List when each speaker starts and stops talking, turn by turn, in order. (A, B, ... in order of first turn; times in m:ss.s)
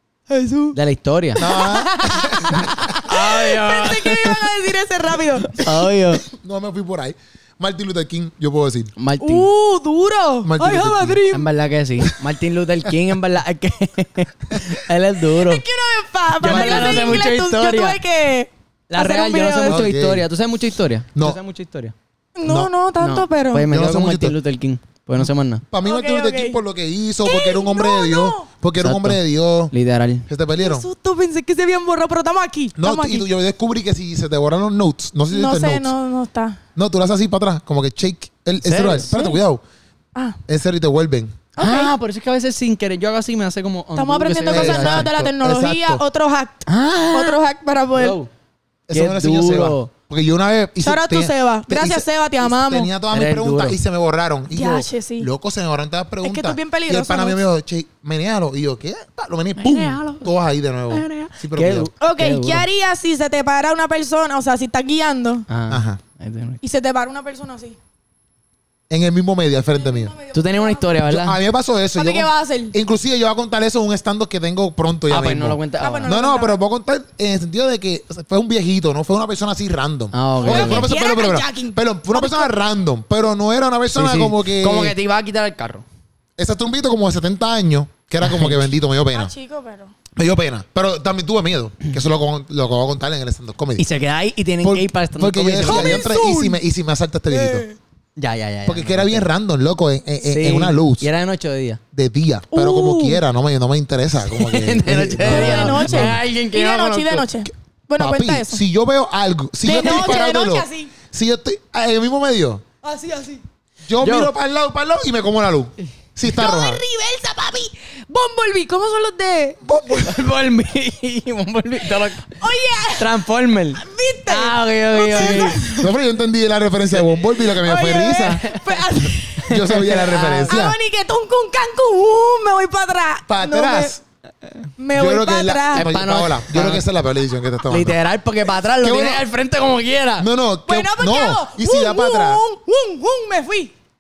0:00.3-0:00.8 A
0:00.7-0:01.4 B
0:01.4-0:05.7 A
0:01.4-0:02.7 C
0:02.5-0:04.5 B
0:05.4-0:06.2 B
0:06.3-0:08.9 C
0:09.0-0:09.5 B
0:09.2-0:11.5 A
0:10.4-0:11.2 C
0:11.3-0:15.6 B
0:15.3-0:19.9 A
0:16.4-0:18.0 B
0:16.4-0:17.3 C
0:18.9-0:21.9 B
0:19.6-0:20.3 C
0:22.4-0:23.7 A
0:22.4-0:22.7 C
0:23.0-0:25.6 B
0:23.7-0:24.4 C
0:25.7-0:29.7 C
0:25.8-0:26.6 A
0:27.2-0:28.5 A
0:28.8-0:30.3 B
0:30.3-0:30.9 C
0:30.6-0:33.3 A
0:32.8-0:35.9 C
0:35.3-0:36.6 A
0:36.8-0:39.6 C
0:38.6-0:39.1 B
0:39.1-0:39.4 A
0:40.5-0:41.4 C
0:41.6-0:41.9 A
0:41.6-0:45.1 B
0:44.0-0:48.2 A
0:44.5-0:46.0 C
0:46.7-0:47.4 B
0:48.0-0:48.3 B
0:48.9-1:01.9 C
0:48.9-0:49.9 B
0:50.8-0:52.9 A
0:53.1-0:53.8 B
0:54.5-0:55.3 A
0:56.2-0:57.4 A
0:59.6-1:00.2 B
0:59.9-1:00.2 A
1:00.9-1:01.3 A
1:01.4-1:02.7 B
1:02.0-1:05.5 A
1:05.5-1:06.6 B
1:05.7-1:06.0 C
1:06.6-1:07.8 A
1:08.9-1:10.2 C
1:09.7-1:11.0 A
1:10.3-1:11.4 B
1:11.1-1:25.0 C
1:12.0-1:12.8 A
1:15.1-1:16.2 B
1:15.8-1:16.6 A
1:20.1-1:20.9 B
1:20.4-1:22.5 A
1:23.9-1:25.8 B
1:26.4-1:29.3 C
1:28.2-1:28.7 B
1:29.1-1:29.9 A
1:30.2-1:33.9 C
1:33.8-1:36.1 B
1:34.6-1:37.7 C
1:35.6-1:36.6 A
1:37.3-1:37.8 A
1:38.2-1:39.3 B
1:38.7-1:41.1 C
1:40.2-1:41.8 B
1:41.9-1:46.2 C
1:42.5-1:43.2 A
1:44.3-1:47.3 B
1:45.2-1:48.6 A
1:48.0-1:52.6 C
1:49.6-1:50.9 A
1:49.7-1:50.3 B
1:52.8-1:53.4 A
1:53.9-1:56.8 C
1:54.0-1:54.3 B
1:56.3-1:59.6 A
1:59.6-2:00.3 C
2:00.0-2:02.3 B
2:02.4-2:03.1 A
2:03.0-2:05.6 B
2:03.8-2:05.9 A
2:05.1-2:08.5 C
2:07.4-2:14.0 A
2:09.5-2:10.8 C
2:09.7-2:10.6 B
2:13.3-2:14.0 C
2:14.8-2:15.9 A
2:14.9-2:18.0 C
2:15.7-2:16.9 B
2:17.7-2:20.3 B
2:18.8-2:19.2 C
2:20.2-2:22.4 C
2:20.7-2:23.7 A